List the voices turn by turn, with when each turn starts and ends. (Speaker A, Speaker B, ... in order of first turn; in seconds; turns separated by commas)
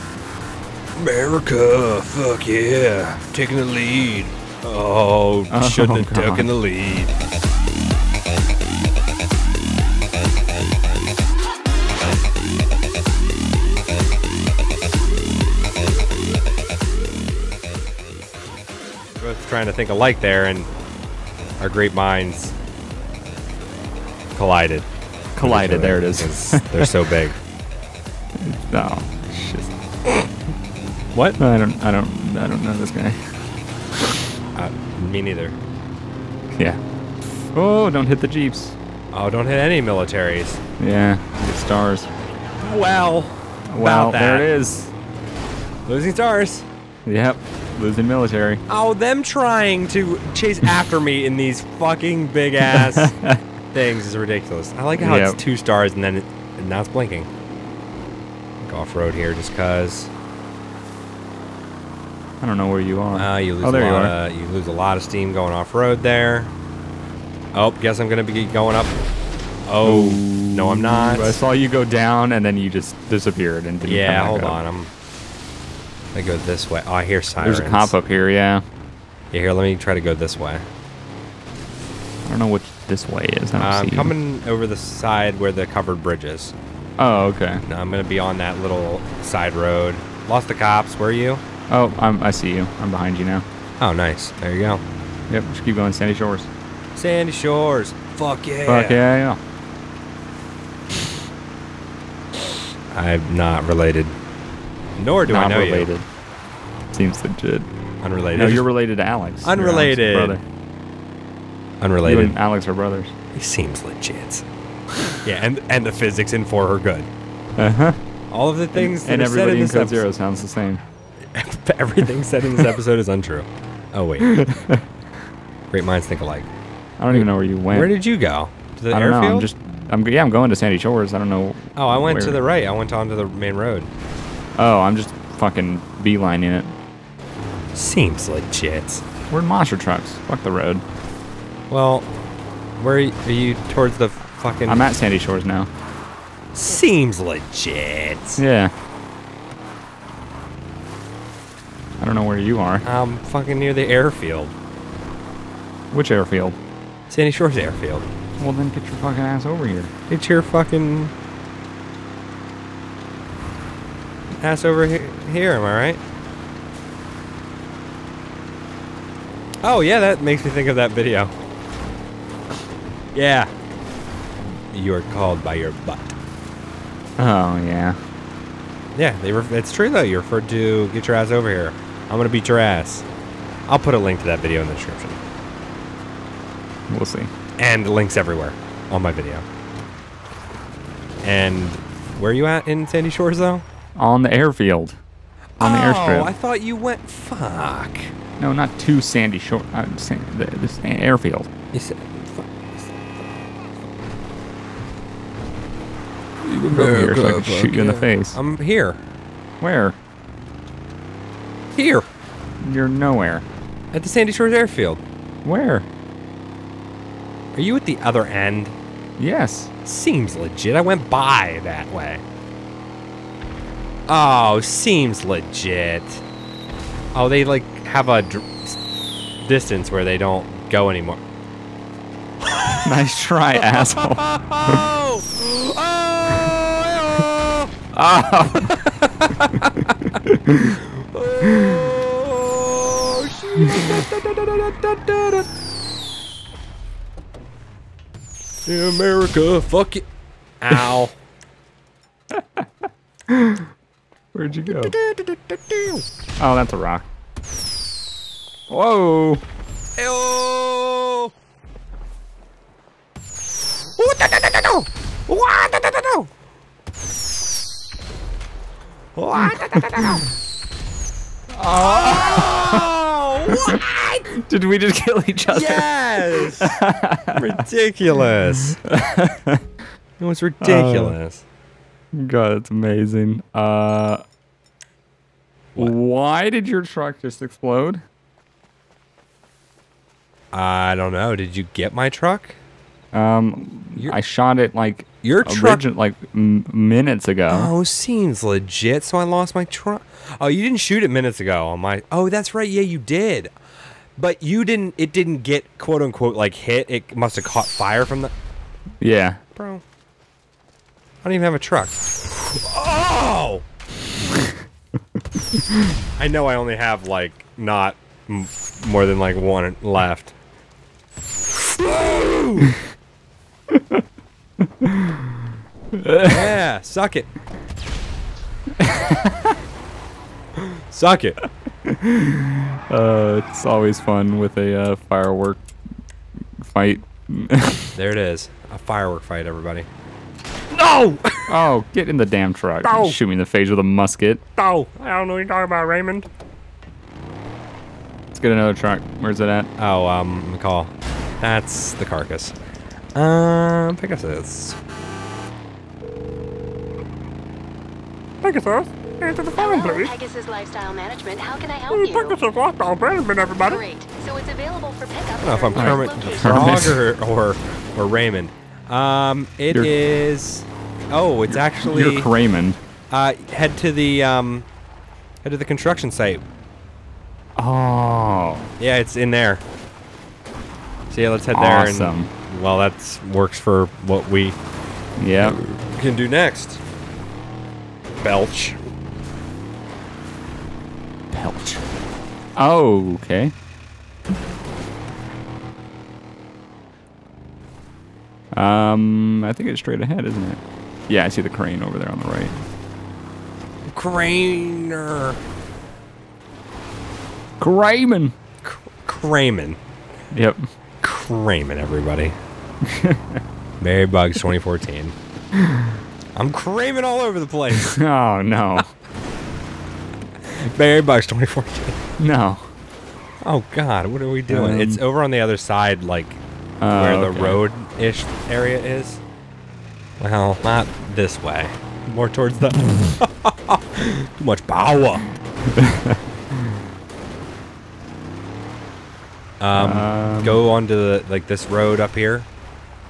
Speaker A: 1.0-7.1, Speaker B: 5.5-6.5, Speaker A: 19.2-20.7, Speaker A: 21.6-22.5, Speaker A: 24.3-24.9, Speaker B: 25.4-26.9, Speaker A: 25.4-27.4, Speaker B: 28.4-29.7, Speaker A: 31.1-31.4, Speaker B: 31.4-33.2, Speaker A: 34.5-35.5, Speaker B: 36.5-36.8, Speaker B: 37.5-38.8, Speaker A: 39.1-40.6, Speaker B: 40.8-42.1, Speaker A: 42.6-44.5, Speaker B: 43.7-44.9, Speaker A: 45.9-46.6, Speaker B: 47.0-48.6, Speaker A: 48.7-53.1, Speaker B: 52.7-53.4, Speaker A: 53.7-57.3, Speaker B: 55.0-55.4, Speaker A: 58.6-60.1, Speaker B: 62.4-64.2, Speaker A: 63.1-66.5, Speaker A: 67.5-69.0, Speaker A: 69.7-71.4, Speaker B: 69.8-74.6, Speaker A: 73.8-74.9, Speaker A: 76.1-77.9, Speaker B: 77.4-78.6, Speaker A: 79.3-80.6, Speaker B: 82.2-84.1, Speaker A: 83.6-86.5, Speaker B: 87.0-87.6, Speaker A: 87.7-91.4, Speaker B: 91.7-93.4, Speaker A: 93.8-94.8, Speaker B: 95.3-96.5, Speaker A: 97.0-99.0, Speaker B: 98.6-99.4, Speaker A: 102.9-104.1, Speaker A: 105.0-105.9, Speaker B: 105.3-106.1, Speaker B: 106.9-107.7, Speaker A: 108.0-108.7, Speaker B: 108.3-110.4, Speaker A: 109.4-110.4, Speaker A: 111.8-112.3, Speaker B: 112.0-113.1, Speaker A: 113.3-114.5, Speaker A: 115.2-117.1, Speaker B: 117.6-118.0, Speaker A: 118.3-120.0, Speaker B: 118.7-120.8, Speaker A: 121.3-124.3, Speaker B: 124.2-124.8, Speaker A: 125.7-126.5, Speaker B: 127.0-127.9, Speaker A: 127.1-129.5, Speaker B: 128.9-132.4, Speaker A: 131.8-133.9, Speaker B: 134.6-136.7, Speaker A: 137.7-139.0, Speaker B: 139.3-140.8, Speaker A: 141.7-142.1, Speaker A: 142.8-144.9, Speaker B: 144.7-145.7, Speaker A: 146.5-148.4, Speaker B: 148.4-148.7, Speaker B: 152.0-152.8, Speaker A: 152.8-154.5, Speaker B: 155.9-156.6, Speaker A: 157.1-158.1, Speaker B: 158.4-159.9, Speaker A: 160.1-161.1, Speaker A: 164.4-166.0, Speaker A: 169.6-171.3, Speaker A: 173.1-173.5, Speaker A: 174.7-176.2, Speaker B: 177.2-178.0, Speaker A: 178.9-183.1, Speaker A: 183.7-185.2, Speaker B: 186.9-187.3, Speaker A: 187.6-189.4, Speaker A: 191.2-193.6, Speaker B: 194.0-195.0, Speaker A: 195.6-198.1, Speaker B: 195.6-196.3, Speaker B: 198.4-201.5, Speaker A: 201.7-202.9, Speaker B: 206.4-208.4, Speaker A: 206.7-209.0, Speaker B: 209.6-210.0, Speaker A: 211.7-212.1, Speaker B: 212.6-213.4, Speaker A: 213.9-215.0, Speaker B: 215.4-215.9, Speaker A: 217.5-218.7, Speaker B: 219.2-219.7, Speaker A: 219.8-222.2, Speaker A: 224.1-226.2, Speaker A: 227.1-228.8, Speaker A: 229.4-231.2, Speaker A: 232.4-232.9, Speaker B: 232.8-234.8, Speaker A: 233.6-237.7, Speaker B: 237.9-238.7, Speaker A: 238.7-239.7, Speaker B: 240.2-240.8, Speaker A: 240.6-245.5, Speaker A: 248.7-250.1, Speaker A: 250.6-251.1, Speaker B: 252.3-252.6, Speaker B: 253.3-253.6, Speaker B: 254.3-254.9, Speaker A: 254.7-256.0, Speaker B: 256.4-257.1, Speaker B: 258.7-259.4, Speaker A: 260.0-261.3, Speaker A: 264.0-266.3, Speaker A: 269.1-270.2, Speaker B: 271.5-272.9, Speaker A: 271.7-274.3, Speaker B: 274.3-277.4, Speaker A: 275.5-276.8, Speaker A: 277.3-278.8, Speaker B: 278.9-279.6, Speaker A: 280.2-281.4, Speaker B: 280.6-281.1, Speaker B: 282.1-284.2, Speaker B: 285.8-288.0, Speaker A: 290.5-292.6, Speaker B: 293.1-297.7, Speaker A: 295.2-295.8, Speaker A: 297.5-303.5, Speaker A: 304.2-308.3, Speaker B: 309.0-309.4, Speaker A: 309.6-309.8, Speaker A: 311.2-313.6, Speaker A: 316.1-320.3, Speaker A: 321.7-322.7, Speaker B: 323.7-324.0, Speaker B: 324.6-325.3, Speaker B: 325.9-326.5, Speaker A: 326.2-327.3, Speaker B: 328.8-329.5, Speaker A: 330.6-331.4, Speaker B: 331.9-335.6, Speaker B: 336.6-337.9, Speaker A: 337.9-339.9, Speaker A: 340.7-341.5, Speaker B: 341.5-344.4, Speaker A: 342.8-343.2, Speaker A: 344.6-346.3, Speaker B: 348.3-349.7, Speaker A: 349.8-352.5, Speaker A: 353.1-354.8, Speaker C: 358.4-360.1, Speaker A: 358.4-359.4, Speaker D: 359.5-362.5, Speaker C: 361.9-363.8, Speaker D: 363.4-366.9, Speaker A: 365.4-372.3, Speaker B: 365.8-367.0, Speaker B: 371.5-372.8, Speaker A: 373.1-374.7, Speaker A: 375.4-376.4, Speaker B: 377.6-378.7, Speaker A: 378.8-379.6, Speaker A: 381.1-384.6, Speaker B: 381.5-382.3, Speaker B: 385.2-385.6, Speaker A: 385.4-386.8, Speaker A: 388.2-388.8, Speaker B: 391.3-391.8, Speaker B: 392.6-393.5, Speaker B: 398.6-402.6, Speaker A: 403.9-405.4, Speaker B: 407.6-408.3, Speaker A: 408.6-409.8, Speaker B: 410.3-410.6, Speaker A: 411.0-412.3, Speaker B: 412.9-413.4, Speaker A: 413.8-415.1, Speaker B: 415.6-416.0, Speaker A: 416.3-418.0, Speaker B: 417.9-418.9, Speaker A: 420.4-422.0, Speaker B: 422.2-422.7, Speaker A: 423.4-429.2, Speaker B: 424.5-425.0, Speaker B: 426.8-427.6, Speaker A: 430.2-435.2, Speaker B: 435.7-436.2, Speaker A: 439.6-442.5, Speaker B: 439.7-440.6